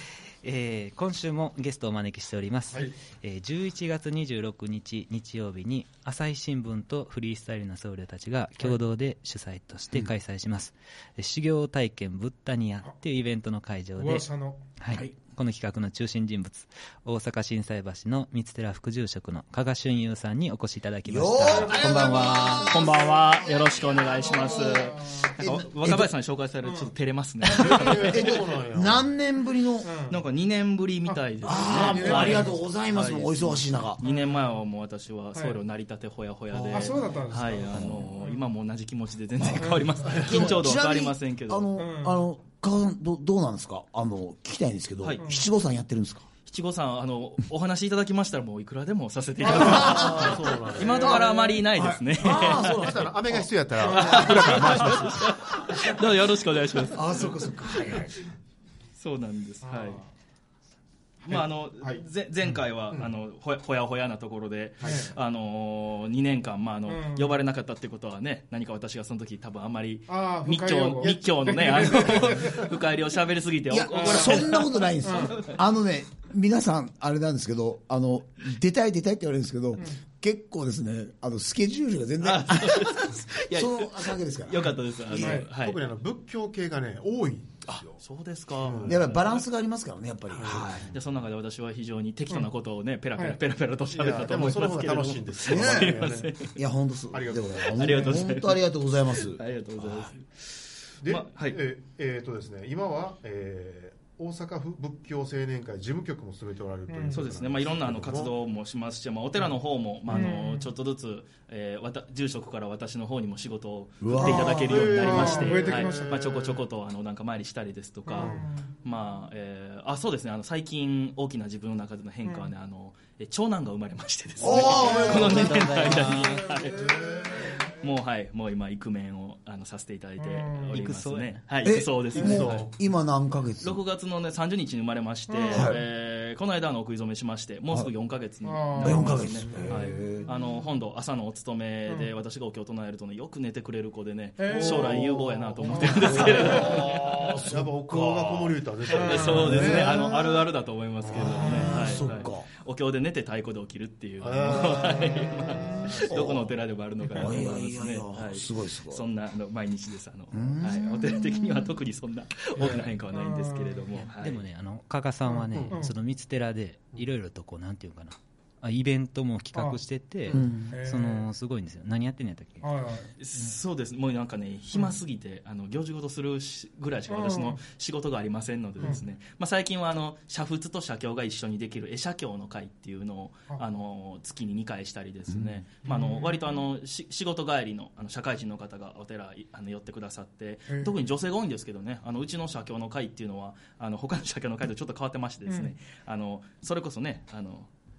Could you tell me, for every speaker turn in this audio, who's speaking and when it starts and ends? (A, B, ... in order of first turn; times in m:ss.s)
0:00.4-0:22.9 A
0:14.0-0:14.7 B
0:14.9-0:15.2 C
0:21.1-0:26.1 C
0:21.5-0:22.0 B
0:22.6-0:28.3 D
0:24.7-0:25.3 B
0:27.5-0:29.1 E
0:28.0-0:29.9 C
0:29.8-0:30.2 B
0:30.1-0:41.7 D
0:31.1-0:32.5 B
0:31.4-0:34.0 C
0:31.7-0:32.3 E
0:34.0-0:34.4 B
0:36.5-0:37.1 E
0:36.7-0:38.4 B
0:39.6-0:39.9 B
0:40.1-0:40.4 E
0:40.2-0:46.3 C
0:41.8-0:42.2 B
0:46.5-0:52.9 D
0:49.4-0:50.3 B
0:49.6-0:53.3 C
0:49.8-0:51.2 E
0:50.8-0:51.2 B
0:52.3-0:54.7 E
0:53.8-0:57.4 D
0:53.9-0:54.6 B
0:53.9-0:55.4 C
0:56.9-0:58.2 C
0:59.0-1:00.0 D
0:59.6-1:00.1 B
1:01.3-1:15.6 D
1:01.3-1:02.0 E
1:04.8-1:05.2 B
1:06.9-1:07.3 B
1:10.1-1:12.8 B
1:13.7-1:25.4 C
1:13.9-1:15.4 B
1:22.2-1:25.8 D
1:25.2-1:25.5 B
1:25.2-1:28.0 E
1:28.0-1:29.4 D
1:28.6-1:29.0 E
1:28.8-1:31.0 C
1:30.4-1:30.8 E
1:30.9-1:36.5 D
1:33.9-1:36.3 E
1:35.5-1:40.1 C
1:37.1-1:37.8 E
1:37.7-1:41.6 D
1:41.0-1:48.3 E
1:46.9-1:47.3 B
1:47.1-2:06.9 D
1:50.1-1:50.7 B
1:54.0-1:54.7 C
1:54.2-1:56.2 B
1:54.5-1:56.6 E
1:58.1-1:58.7 B
2:02.2-2:02.5 B
2:04.4-2:05.7 C
2:04.7-2:06.5 A
2:06.1-2:07.6 B
2:06.8-2:07.5 E
2:07.8-2:12.7 D
2:10.2-2:10.9 B
2:10.7-2:11.4 A
2:11.6-2:13.8 C
2:12.2-2:12.7 E
2:13.6-2:27.1 D
2:15.3-2:15.8 B
2:15.5-2:15.8 C
2:18.4-2:20.2 B
2:18.8-2:20.3 C
2:24.4-2:25.1 B
2:24.5-2:26.0 E
2:25.7-2:26.8 B
2:25.8-2:28.6 C
2:27.4-2:29.9 E
2:28.9-2:30.3 B
2:29.0-2:44.4 D
2:29.3-2:30.1 C
2:31.1-2:31.7 E
2:31.2-2:32.5 C
2:31.6-2:31.8 B
2:34.2-2:36.0 E
2:35.5-2:36.0 B
2:36.0-2:36.5 C
2:37.1-2:39.1 C
2:40.3-2:41.7 C
2:42.6-2:43.8 B
2:44.0-2:52.7 A
2:45.3-2:45.9 B
2:49.5-2:51.3 B
2:50.3-2:50.7 C
2:52.6-2:53.1 B
2:53.2-3:17.7 D
2:57.1-2:57.6 B
3:05.3-3:05.6 C
3:05.8-3:06.6 B
3:10.7-3:11.0 B
3:15.5-3:15.7 B